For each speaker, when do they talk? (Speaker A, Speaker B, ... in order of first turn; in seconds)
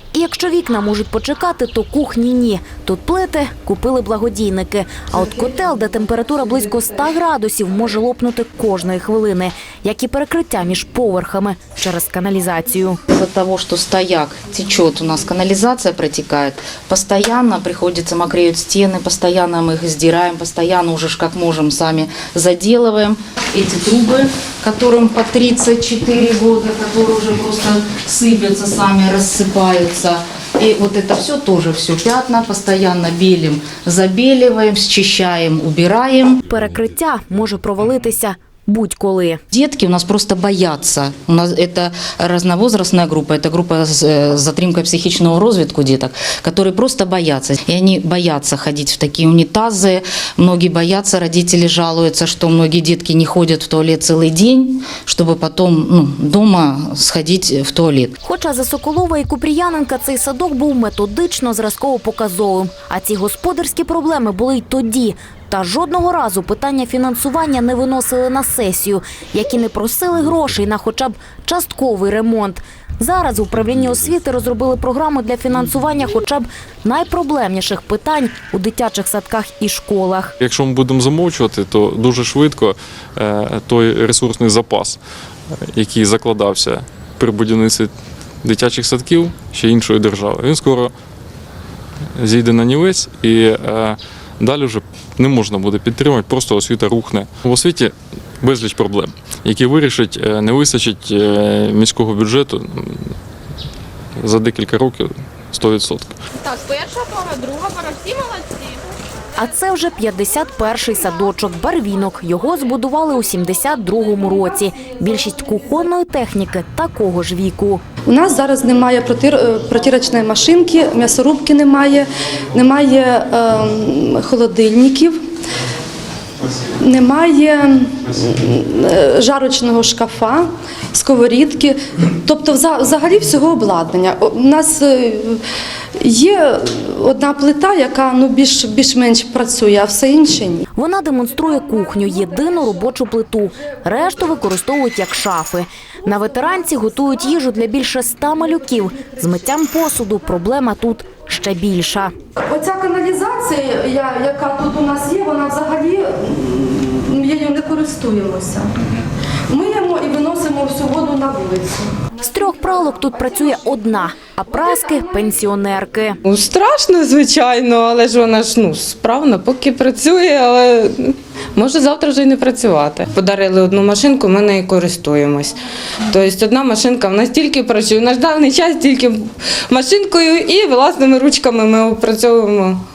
Speaker A: 0.1-13.0, 36.5-39.4, 58.2-80.3, 109.4-117.8, 140.8-152.1, 162.2-166.2
Speaker B: 13.1-36.4, 39.5-58.1
Speaker C: 80.4-85.0, 85.5-87.9, 88.4-90.9, 92.2-103.1, 104.2-106.2
Speaker D: 106.4-108.9
Speaker E: 118.1-125.2, 126.7-135.4, 136.0-140.7, 152.5-158.7, 159.5-161.9, 163.2-163.8, 164.5-165.4
Speaker F: 166.3-170.8, 171.6-175.5, 176.1-179.1, 179.7-182.8